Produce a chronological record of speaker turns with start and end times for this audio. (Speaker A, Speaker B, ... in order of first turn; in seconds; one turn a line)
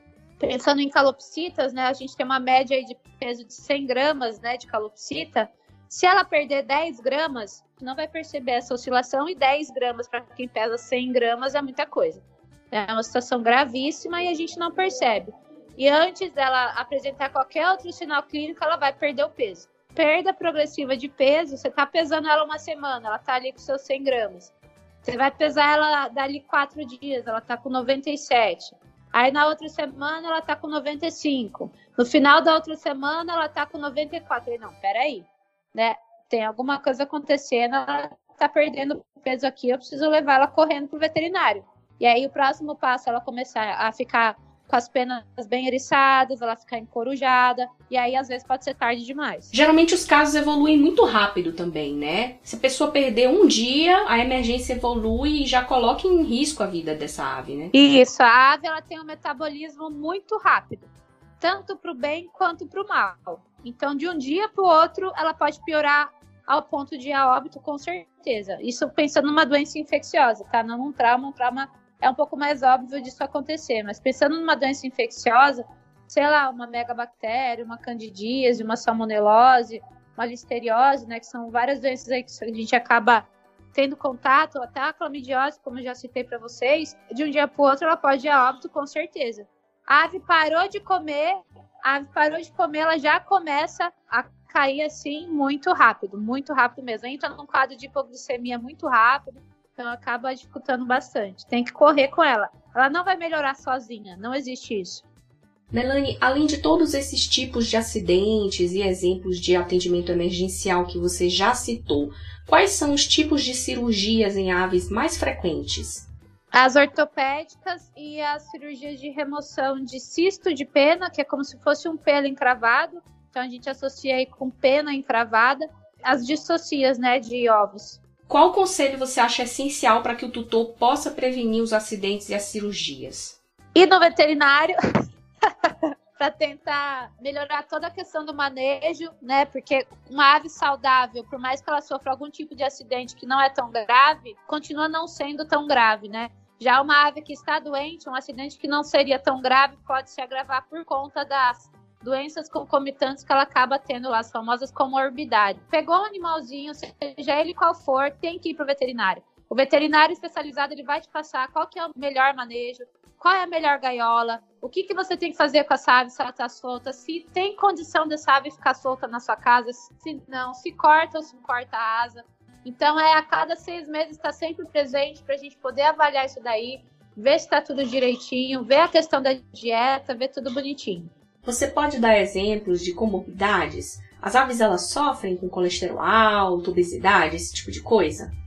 Speaker A: 0.4-24.5
Speaker A: 25.1-49.5
Speaker B: 49.5-57.7
Speaker A: 57.7-60.9
Speaker A: 61.4-105.0
Speaker B: 105.7-116.1
Speaker A: 116.5-128.0
Speaker B: 128.3-133.4
Speaker A: 133.8-134.7
Speaker A: 135.5-181.1
Speaker B: 181.4-188.3